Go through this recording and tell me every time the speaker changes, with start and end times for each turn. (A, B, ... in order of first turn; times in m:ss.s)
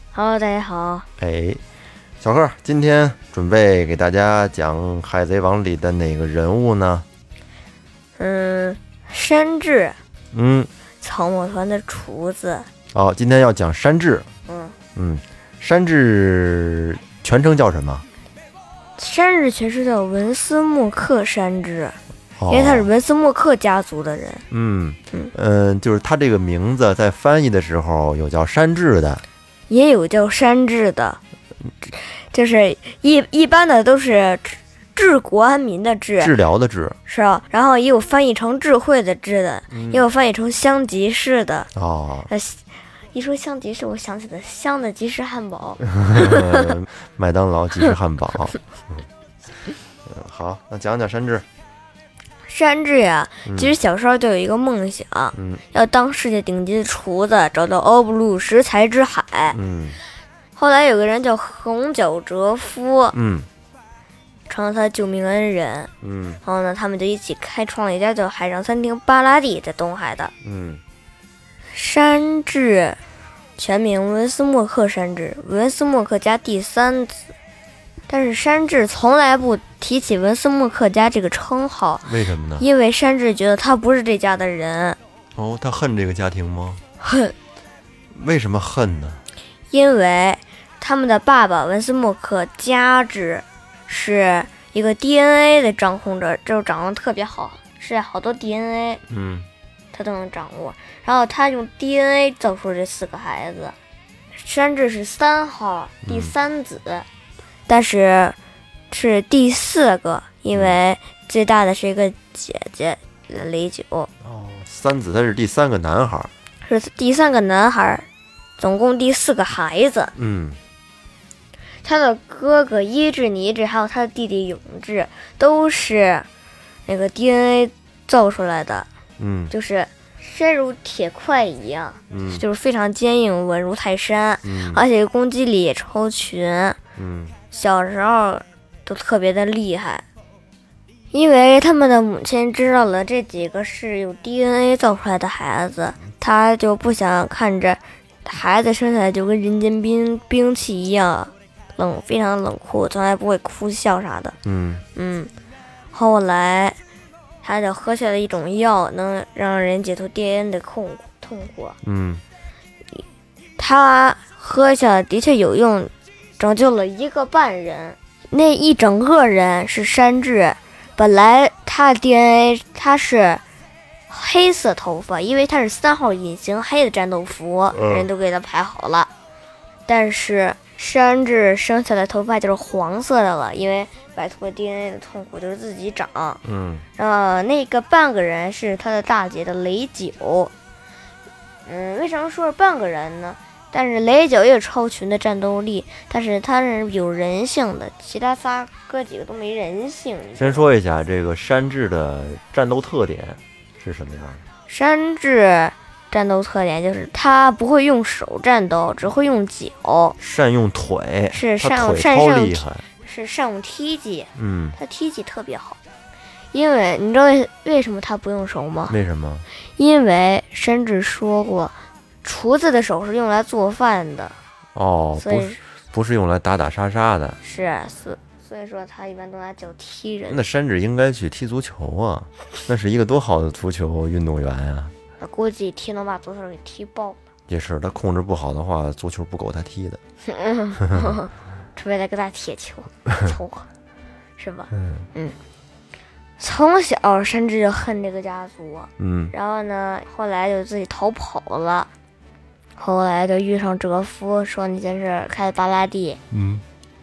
0:00.1-0:01.1 A
0:01.2-0:01.6 B
0:02.2-0:07.1 B
0:08.2-0:10.0 A
0:10.3-0:10.7 B
0:11.0-0:12.7 A
0:12.9-0:14.3 B
0:14.5-0:14.8 A
0:15.0-0:18.0 B
0:19.0-0:22.0 A
0:22.4-0:22.9 B
0:22.5-0:24.4 A
0:24.5-0:29.2 B
0:29.7-0:31.2 A
0:31.8-0:36.3 A
0:36.2-0:37.0 B
0:37.1-0:41.7 A
0:39.7-0:40.0 B
0:41.8-0:42.3 B
0:42.3-0:46.7 A
0:46.1-0:49.1 B
0:50.0-0:51.5 B
0:52.5-0:59.6 A
0:53.4-0:53.8 B
0:55.3-0:55.6 B
0:59.5-1:00.0 B
1:00.6-1:03.2 A
1:03.1-1:03.5 B
1:04.5-1:05.9 A
1:06.0-1:06.4 B
1:06.4-1:10.3 A
1:10.4-1:10.8 B
1:11.7-1:13.0 A
1:13.6-1:17.3 A
1:18.1-1:25.0 A
1:22.0-1:22.7 B
1:25.4-1:26.8 B
1:27.0-1:27.4 A
1:28.1-1:29.2 B
1:29.7-1:39.0 A
1:39.1-1:39.5 B
1:39.9-1:43.8 A
1:44.4-1:47.1 A
1:46.0-1:46.3 B
1:47.7-1:48.4 A
1:48.9-1:54.1 A
1:50.5-1:50.8 B
1:54.2-1:56.3 B
1:56.6-1:58.1 A
1:58.6-2:00.1 A
2:00.2-2:00.6 B
2:01.8-2:06.3 A
2:06.9-2:08.9 A
2:09.2-2:09.5 B
2:09.5-2:16.8 A
2:12.1-2:12.4 B
2:14.4-2:14.8 B
2:17.0-2:17.4 B
2:17.5-2:20.0 A
2:21.1-2:34.4 A
2:34.4-2:34.8 B
2:35.0-2:35.3 A
2:35.9-2:36.8 A
2:37.4-2:41.8 A
2:41.8-2:42.2 B
2:43.6-2:53.4 A
2:54.1-2:59.1 A
2:57.7-2:58.1 B
2:59.9-3:06.4 A
3:06.4-3:06.8 B
3:07.0-3:10.5 A
3:11.7-3:20.7 A
3:20.4-3:24.4 B
3:24.7-3:30.2 A
3:30.2-3:32.9 B
3:31.3-3:35.8 A
3:34.4-3:34.8 B
3:36.5-3:39.0 A
3:38.9-3:39.5 B
3:39.8-3:44.4 A
3:44.8-3:47.4 B
3:45.2-3:45.6 A
3:47.4-3:50.5 A
3:50.3-3:55.0 B
3:55.2-3:57.2 A
3:57.5-4:00.0 B
4:00.3-4:03.7 A
4:04.4-4:05.4 A
4:06.4-4:11.9 A
4:09.0-4:09.3 B
4:12.8-4:16.2 A
4:16.3-4:16.6 B